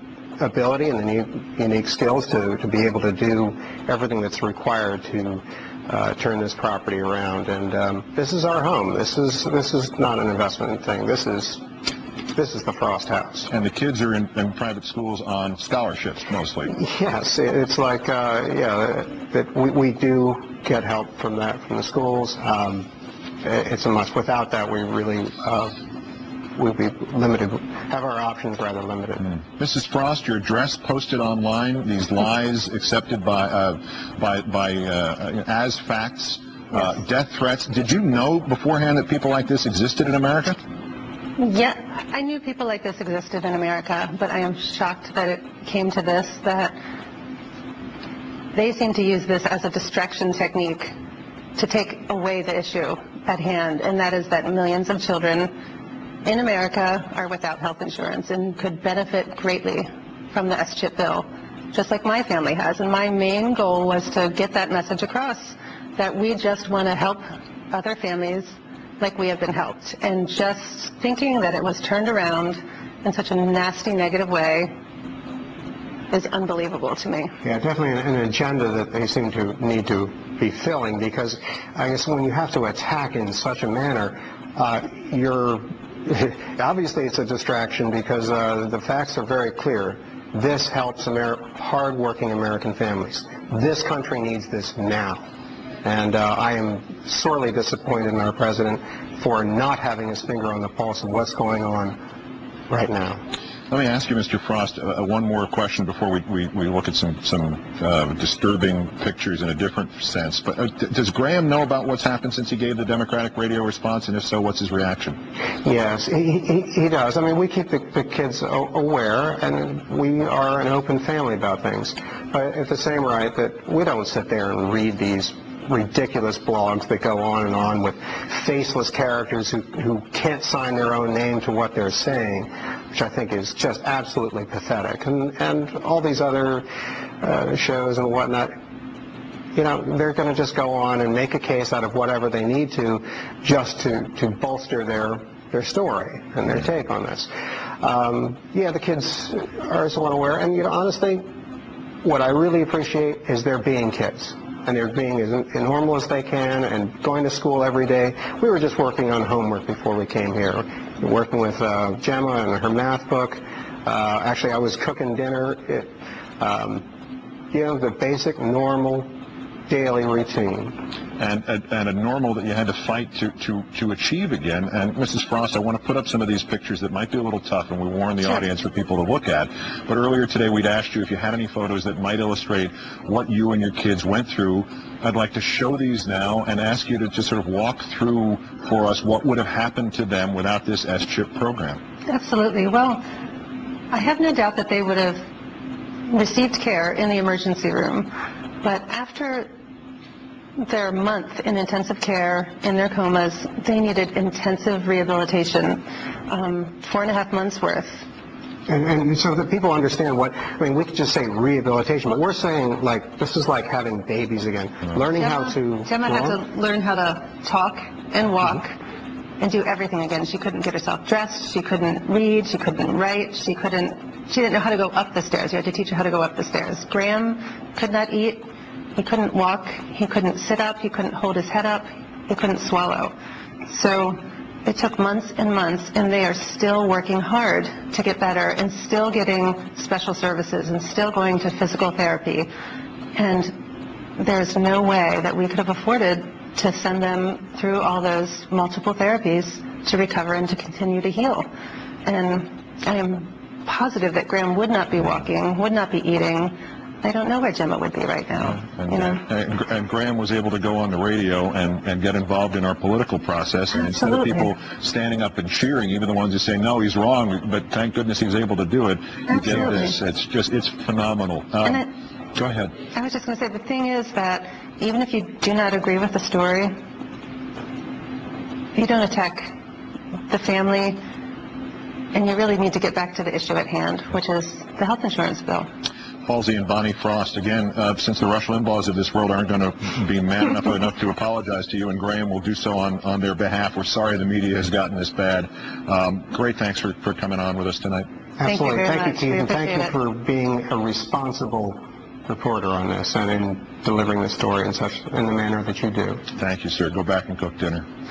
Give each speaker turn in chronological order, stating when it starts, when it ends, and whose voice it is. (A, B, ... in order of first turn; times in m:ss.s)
0:00.4-0:11.6 A
0:12.3-0:13.5 A
0:13.5-0:16.7 B
0:16.7-0:22.9 A
0:23.4-0:25.7 A
0:26.6-0:29.3 A
0:29.2-0:40.6 B
0:41.4-0:46.8 C
0:48.5-0:50.9 C
0:51.6-0:55.5 C
0:56.2-1:14.7 C
1:16.1-1:17.3 C
1:17.4-1:35.2 A
1:35.8-1:42.0 A
1:42.7-1:43.2 A
1:43.7-1:55.2 B
1:55.6-2:16.6 A
2:17.2-2:18.5 A
2:19.5-2:31.2 A
2:32.0-2:46.8 A
2:47.5-2:49.1 A
2:49.7-2:50.8 A
2:51.2-3:11.8 B
3:12.1-3:13.0 C
3:13.9-3:15.2 C
3:16.0-3:19.5 C
3:20.6-3:28.0 C
3:28.7-3:36.4 A
3:35.2-3:38.8 C
3:39.4-3:53.1 C
3:53.7-4:02.5 C
4:03.1-4:03.6 C
4:04.2-4:11.5 C
4:12.0-4:19.2 C
4:18.4-4:32.7 B
4:23.8-4:24.4 C
4:29.3-4:29.9 C
4:32.9-4:36.7 C
4:38.7-4:39.5 C
4:40.3-4:41.0 C
4:42.1-4:45.7 C
4:46.2-4:58.0 B
4:58.4-5:06.2 A
4:58.4-4:59.9 C
5:06.4-5:07.8 B